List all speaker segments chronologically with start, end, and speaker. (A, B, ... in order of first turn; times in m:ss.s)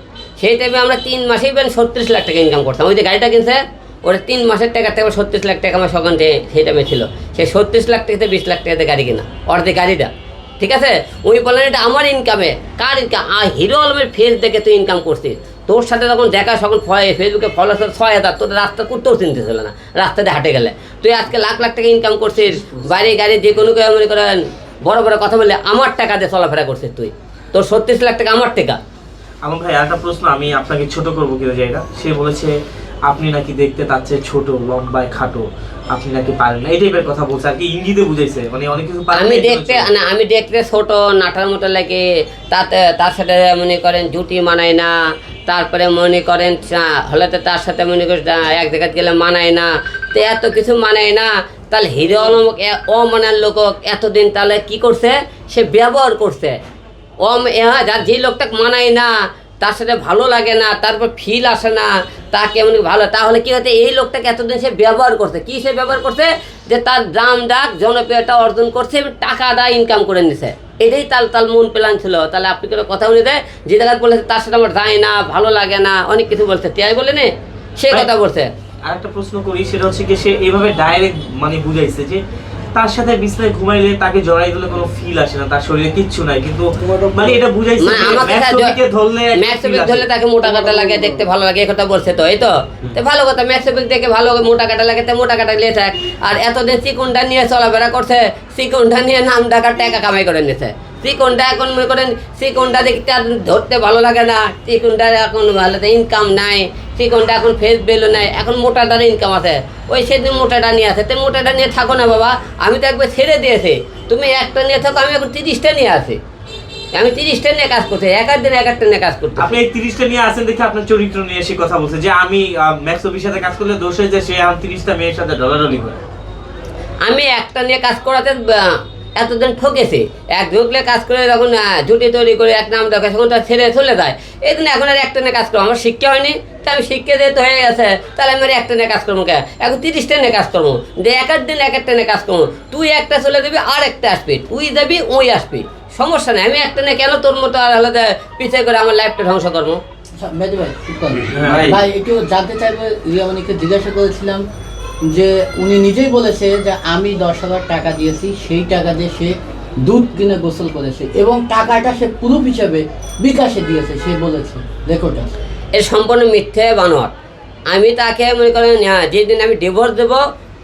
0:00.4-0:28.8 A
0:29.4-0:39.9 B
0:39.1-0:45.0 A
0:45.5-0:56.6 A
0:57.2-1:18.5 A
1:18.8-1:22.2 B
1:22.7-1:30.1 B
1:27.8-1:28.8 A
1:29.4-1:56.2 A
1:30.7-1:31.0 C
1:56.9-1:59.5 A
1:59.4-2:06.0 B
2:07.0-2:29.8 A
2:30.2-2:34.4 C
2:31.3-2:31.8 B
2:35.1-2:45.3 C
2:45.8-2:47.1 A
2:47.7-2:50.2 A